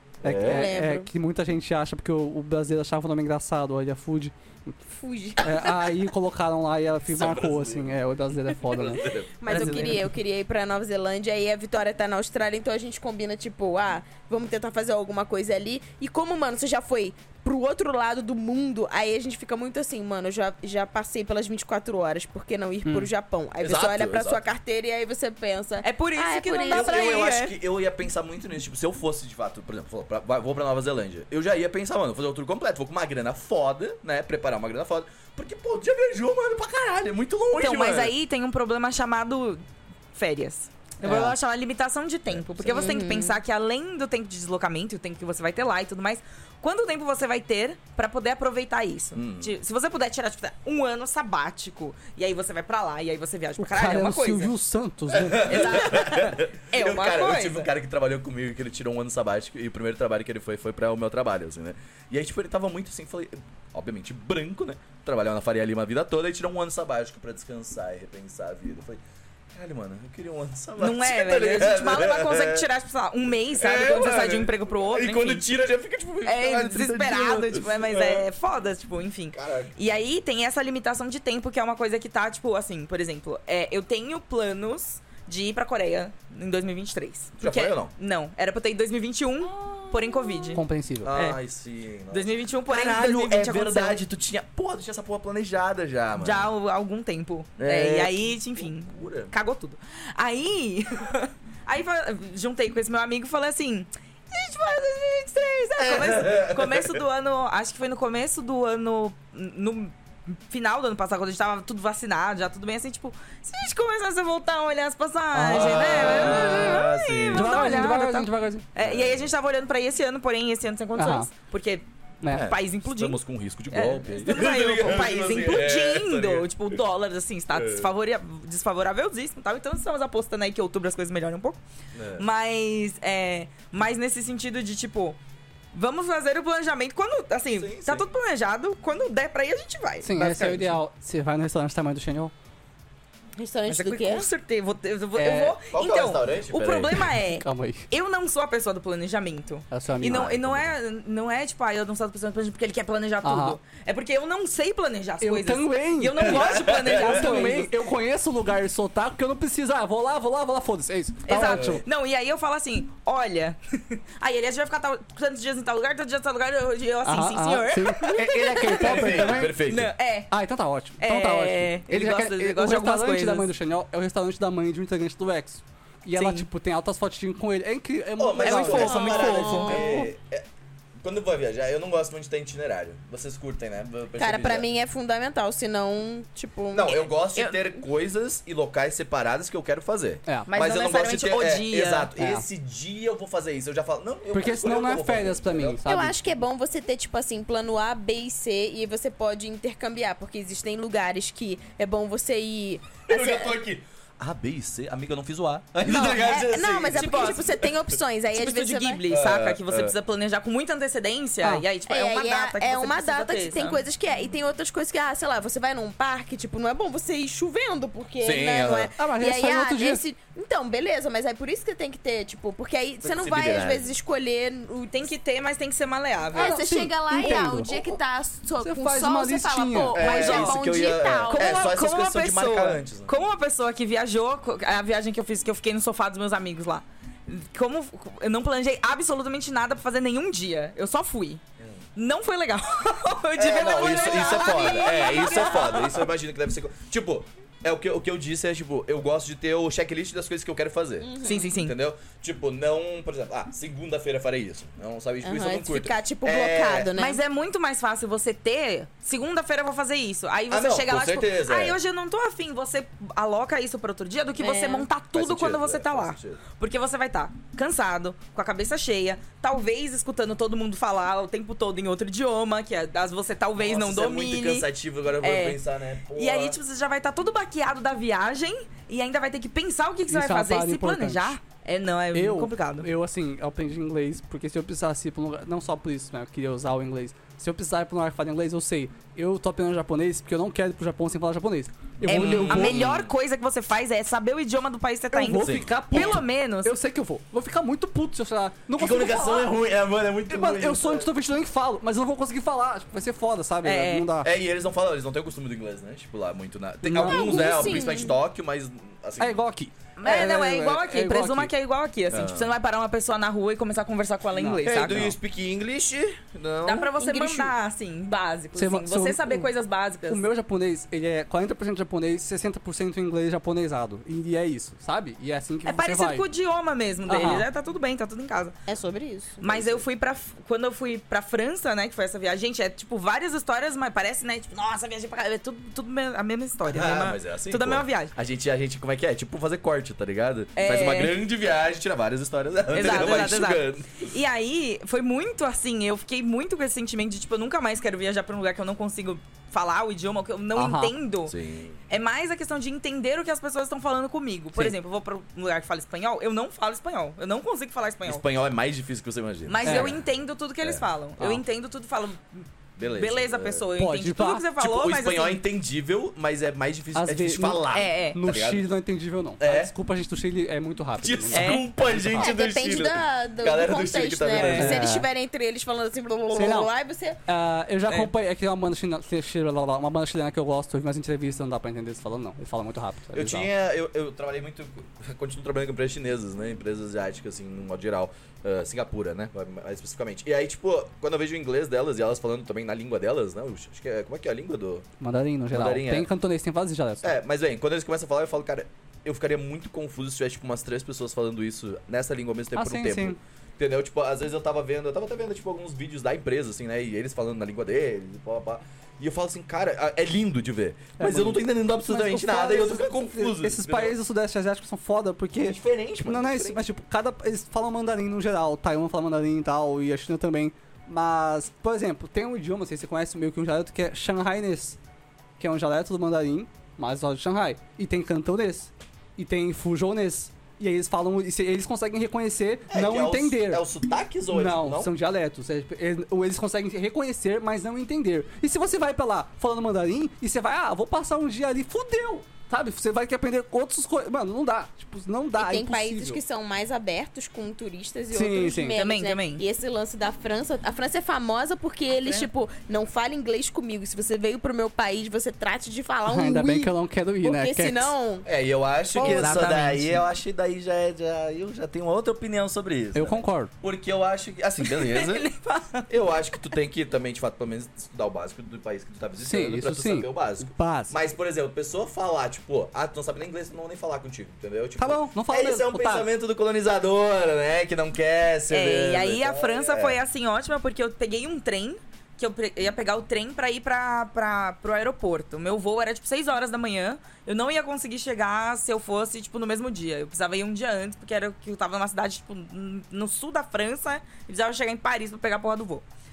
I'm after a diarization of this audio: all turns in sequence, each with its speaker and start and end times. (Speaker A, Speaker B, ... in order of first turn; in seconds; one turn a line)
Speaker A: 0.2-0.7
Speaker B: 0.2-4.7
Speaker C: 0.4-1.1
Speaker C: 4.9-5.9
Speaker B: 5.4-10.1
Speaker A: 7.1-8.0
Speaker A: 8.6-9.3
Speaker C: 9.4-27.3
Speaker D: 9.5-10.0
Speaker A: 23.6-24.4
Speaker D: 25.8-27.5
Speaker A: 26.7-38.1
Speaker D: 37.5-39.6
Speaker D: 40.1-54.5
Speaker B: 41.0-41.3
Speaker C: 42.6-43.4
Speaker A: 49.1-49.5
Speaker B: 53.6-55.8
Speaker A: 55.2-69.0
Speaker D: 55.2-57.7
Speaker A: 69.5-72.7
Speaker D: 70.8-75.5
Speaker A: 73.5-78.3
Speaker D: 76.2-91.4
Speaker A: 79.3-79.7
Speaker A: 87.4-87.9
Speaker B: 90.5-91.1
Speaker A: 91.0-96.5
Speaker D: 92.1-94.0
Speaker D: 96.1-123.2
Speaker A: 97.6-99.3
Speaker A: 105.8-107.0
Speaker B: 115.3-118.7
Speaker A: 115.4-117.8
Speaker A: 118.8-119.3
Speaker B: 120.9-121.3
Speaker B: 122.2-122.5
Speaker A: 122.3-126.8
Speaker D: 123.7-131.6
Speaker A: 127.5-127.9
Speaker A: 131.9-132.2
Speaker D: 132.2-135.2
Speaker D: 135.7-140.8
Speaker A: 137.6-138.1
Speaker B: 140.0-142.3
Speaker C: 143.3-144.3
Speaker D: 143.7-157.7
Speaker A: 145.2-147.0
Speaker B: 147.3-147.8
Speaker B: 149.7-150.4
Speaker A: 150.0-150.7
Speaker B: 153.2-153.6
Speaker B: 155.2-161.8
Speaker A: 156.2-157.6
Speaker D: 161.2-170.3
Speaker A: 161.4-161.8
Speaker B: 167.0-169.6
Speaker A: 168.7-169.9
Speaker B: 170.3-180.1
Speaker D: 171.0-173.5
Speaker D: 176.1-176.5
Speaker A: 178.2-180.4
Speaker D: 178.4-179.8
Speaker C: 178.7-179.9
Speaker A: 181.0-184.7
Speaker C: 184.2-186.9
Speaker A: 186.7-195.8
Speaker D: 186.9-187.6
Speaker D: 190.4-192.1
Speaker B: 192.2-192.4
Speaker B: 194.3-196.1
Speaker C: 195.8-203.5
Speaker A: 203.1-207.7
Speaker C: 205.8-209.0
Speaker D: 206.9-207.4
Speaker D: 208.3-213.8
Speaker A: 209.1-209.9
Speaker C: 211.9-225.1
Speaker A: 218.2-218.9
Speaker B: 218.9-220.0
Speaker A: 223.0-223.9
Speaker D: 224.9-226.6
Speaker B: 226.3-227.8
Speaker C: 226.3-231.5
Speaker B: 228.6-230.1
Speaker A: 229.9-233.2
Speaker D: 230.0-230.7
Speaker D: 231.3-241.4
Speaker D: 241.9-246.0
Speaker A: 243.4-256.9
Speaker C: 244.4-245.9
Speaker C: 251.0-251.6
Speaker D: 251.2-251.7
Speaker C: 255.2-257.2
Speaker D: 256.9-274.7
Speaker A: 260.5-261.8
Speaker C: 264.4-264.9
Speaker A: 265.1-266.4
Speaker A: 273.6-276.6
Speaker D: 275.2-275.6
Speaker D: 276.1-282.9
Speaker B: 280.1-281.4
Speaker B: 282.1-292.9
Speaker D: 292.0-296.8
Speaker A: 292.1-293.1
Speaker B: 295.1-299.5
Speaker A: 295.3-296.2
Speaker A: 298.8-301.1
Speaker B: 300.3-304.3
Speaker D: 303.6-304.1
Speaker A: 304.2-309.4
Speaker B: 306.8-307.9
Speaker C: 307.0-308.1
Speaker B: 309.2-311.5
Speaker D: 310.0-315.1
Speaker A: 312.1-312.5
Speaker B: 314.3-315.1
Speaker A: 314.6-317.3
Speaker D: 316.6-320.3
Speaker B: 318.5-319.5
Speaker B: 320.1-326.2
Speaker D: 325.6-328.6
Speaker B: 327.1-327.4
Speaker C: 328.7-329.8
Speaker D: 329.4-338.1
Speaker A: 336.6-344.1
Speaker D: 340.5-341.2
Speaker D: 342.7-351.3
Speaker B: 350.5-350.9
Speaker A: 351.2-351.8
Speaker D: 351.9-358.2
Speaker A: 358.0-360.0
Speaker D: 359.5-365.4
Speaker B: 359.6-359.9
Speaker A: 362.8-363.6
Speaker B: 363.8-364.4
Speaker A: 364.6-368.7
Speaker B: 366.9-372.3
Speaker D: 367.7-368.2
Speaker A: 369.4-369.7
Speaker A: 371.0-374.9
Speaker D: 371.3-371.6
Speaker C: 372.1-377.2
Speaker B: 374.3-375.1
Speaker B: 376.3-376.7
Speaker B: 377.2-383.5
Speaker A: 383.1-394.9
Speaker B: 395.0-397.1
Speaker A: 395.5-396.1
Speaker A: 397.0-413.9
Speaker B: 402.6-403.2
Speaker B: 411.0-424.8
Speaker A: 415.4-416.6
Speaker B: 425.4-433.6
Speaker A: 432.7-434.9
Speaker B: 434.3-446.2
Speaker C: 445.3-458.2
Speaker B: 448.1-448.8
Speaker D: 448.7-449.4
Speaker D: 452.0-452.3
Speaker B: 456.1-457.9
Speaker A: 458.2-465.3
Speaker D: 458.9-460.0
Speaker B: 462.9-463.5
Speaker D: 464.6-465.9
Speaker A: 465.9-480.0
Speaker B: 469.2-470.9
Speaker B: 474.8-476.1
Speaker D: 478.5-495.8